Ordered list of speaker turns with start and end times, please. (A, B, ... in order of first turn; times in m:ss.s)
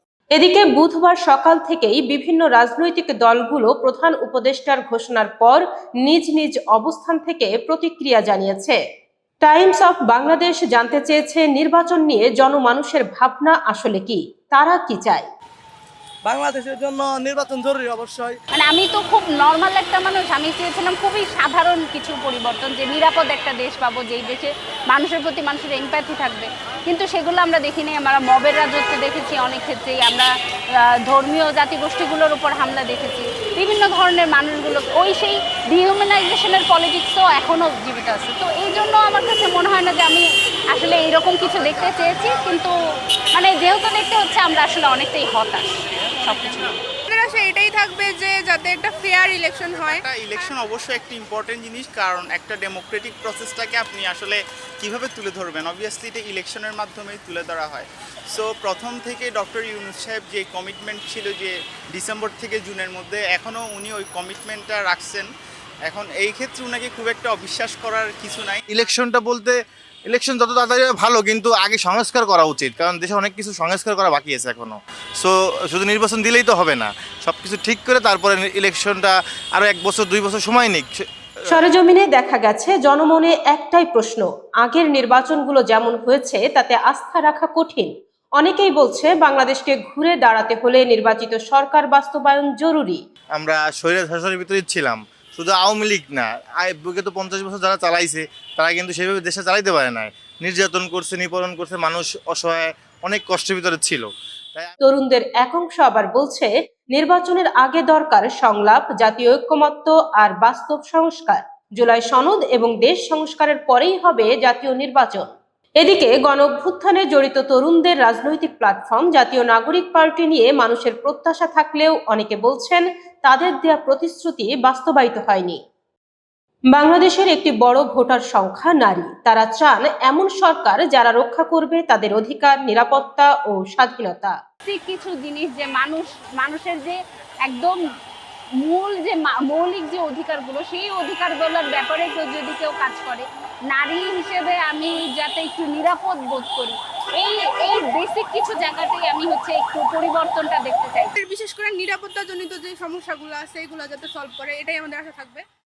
0:00.3-0:08.8 A
0:09.4-0:15.3 A
0:16.2-0:18.4 B
0:18.5-0:30.3 C
0:30.8-0:42.7 C
0:43.3-0:46.7 C
0:47.1-0:50.0 D
0:49.7-1:05.3 E
1:05.8-1:08.6 E
1:08.7-1:09.6 F
1:10.1-1:21.0 F
1:21.5-1:33.0 A
1:33.4-1:44.7 F
1:44.8-2:05.6 A
2:06.7-2:14.4 A
2:14.6-2:17.8 C
2:18.6-2:31.1 C
2:31.2-2:35.4 D